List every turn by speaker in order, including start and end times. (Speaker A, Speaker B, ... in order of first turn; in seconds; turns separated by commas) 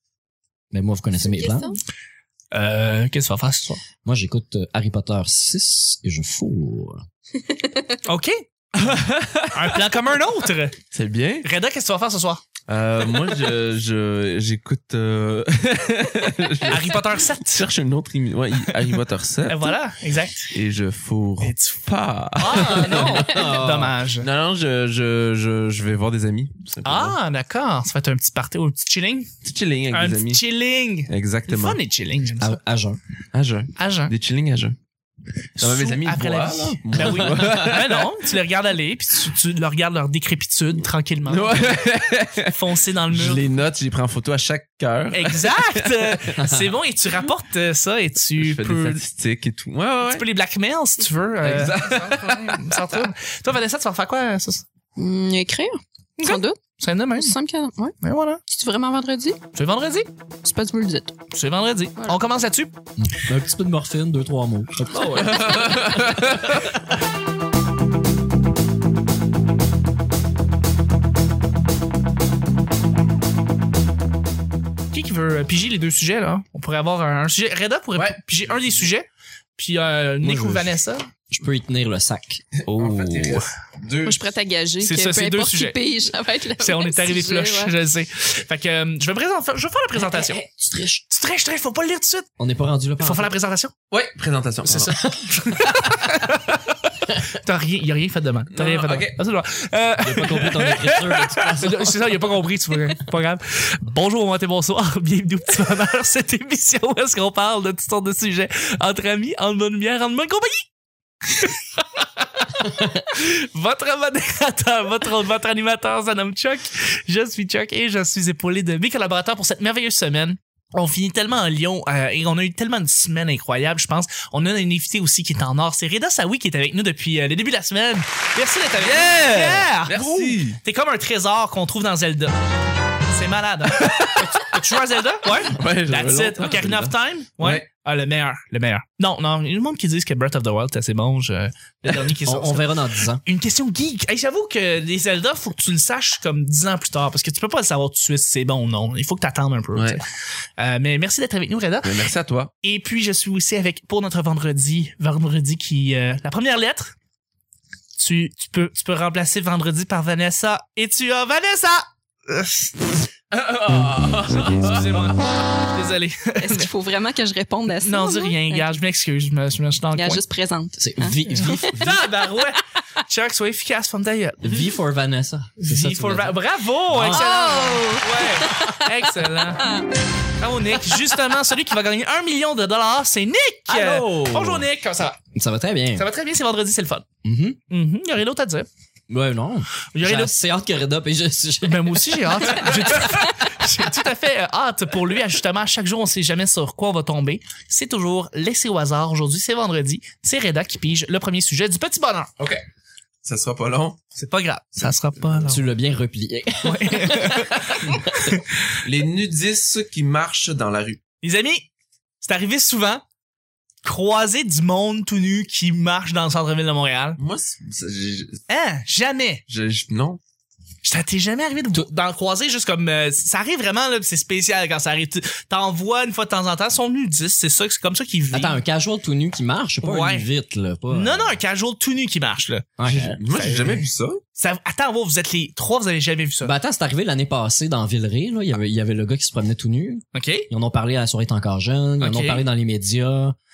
Speaker A: 0.7-1.7, Speaker B: 1.2-1.8, Speaker C: 2.5-3.8, Speaker A: 4.0-7.0, Speaker C: 8.1-8.4, Speaker D: 8.8-9.8, Speaker C: 9.5-10.8, Speaker D: 10.9-11.5, Speaker C: 11.4-12.4, Speaker D: 12.7-19.8, Speaker C: 16.7-17.5, Speaker C: 19.5-20.5, Speaker D: 20.5-23.4, Speaker C: 21.4-21.8, Speaker C: 22.4-24.3, Speaker A: 22.9-23.9, Speaker D: 24.2-27.2, Speaker C: 26.8-29.3, Speaker D: 29.4-30.4, Speaker C: 29.9-32.6, Speaker D: 31.1-31.8, Speaker A: 32.4-33.0, Speaker D: 33.3-34.8, Speaker C: 33.8-34.1, Speaker D: 35.6-38.1, Speaker C: 35.6-41.8, Speaker A: 37.0-37.5, Speaker D: 41.3-42.6, Speaker C: 42.5-43.5, Speaker D: 43.1-46.3, Speaker C: 45.1-49.0, Speaker A: 46.4-46.7, Speaker D: 48.4-50.3, Speaker C: 50.0-54.6, Speaker D: 51.4-53.1, Speaker B: 55.0-56.6, Speaker C: 56.2-57.3, Speaker B: 57.2-58.0, Speaker C: 58.0-58.4, Speaker B: 58.5-59.4, Speaker C: 59.5-60.1, Speaker B: 60.4-61.2, Speaker C: 61.3-62.8, Speaker A: 63.0-66.4, Speaker C: 64.9-65.5, Speaker D: 65.0-66.8, Speaker C: 74.9-81.1, Speaker D: 78.0-78.2, Speaker A: 80.2-80.7, Speaker A: 81.3-83.5, Speaker D: 82.6-84.3, Speaker B: 84.0-87.7, Speaker C: 84.8-85.8, Speaker C: 86.6-90.4, Speaker A: 90.0-91.0, Speaker C: 91.1-92.3, Speaker A: 92.4-93.3, Speaker C: 93.0-93.7, Speaker D: 93.9-96.4, Speaker C: 94.7-96.5, Speaker A: 95.0-95.4, Speaker C: 97.2-101.0, Speaker D: 98.5-99.2, Speaker A: 100.0-102.1, Speaker C: 101.5-110.7, Speaker C: 111.4-132.4, Speaker D: 128.8-130.6, Speaker C: 133.0-150.1, Speaker D: 133.7-134.6, Speaker D: 135.2-137.7, Speaker A: 142.2-143.2, Speaker D: 149.7-150.0, Speaker C: 150.6-152.1, Speaker D: 151.8-152.5, Speaker C: 152.6-156.9, Speaker C: 158.0-163.0, Speaker D: 163.3-165.2, Speaker C: 164.6-166.7, Speaker B: 166.4-168.7, Speaker C: 167.8-170.2, Speaker B: 170.0-171.9, Speaker A: 170.8-172.0, Speaker C: 171.3-174.7, Speaker A: 174.4-176.4, Speaker C: 175.6-179.8, Speaker A: 176.9-177.7, Speaker B: 177.1-179.9, Speaker C: 180.4-185.2, Speaker A: 183.7-184.7, Speaker A: 185.3-186.1, Speaker C: 186.0-187.1, Speaker A: 187.2-187.6, Speaker C: 187.7-188.7, Speaker A: 189.1-192.9, Speaker C: 189.9-190.3, Speaker C: 191.6-202.3, Speaker D: 203.2-204.0, Speaker C: 204.2-205.6, Speaker D: 204.8-205.4, Speaker A: 205.4-208.4, Speaker C: 206.6-208.6, Speaker D: 208.8-211.0, Speaker C: 211.2-211.7, Speaker C: 212.2-213.0, Speaker C: 213.8-217.2, Speaker D: 217.2-218.4, Speaker C: 218.5-219.4, Speaker D: 219.5-220.2, Speaker C: 220.8-228.6, Speaker A: 228.3-231.4, Speaker C: 229.8-230.3, Speaker C: 230.9-232.7, Speaker A: 232.8-233.2, Speaker D: 232.8-234.2, Speaker C: 233.3-236.5, Speaker A: 236.4-243.4, Speaker C: 240.1-240.5, Speaker C: 242.0-242.5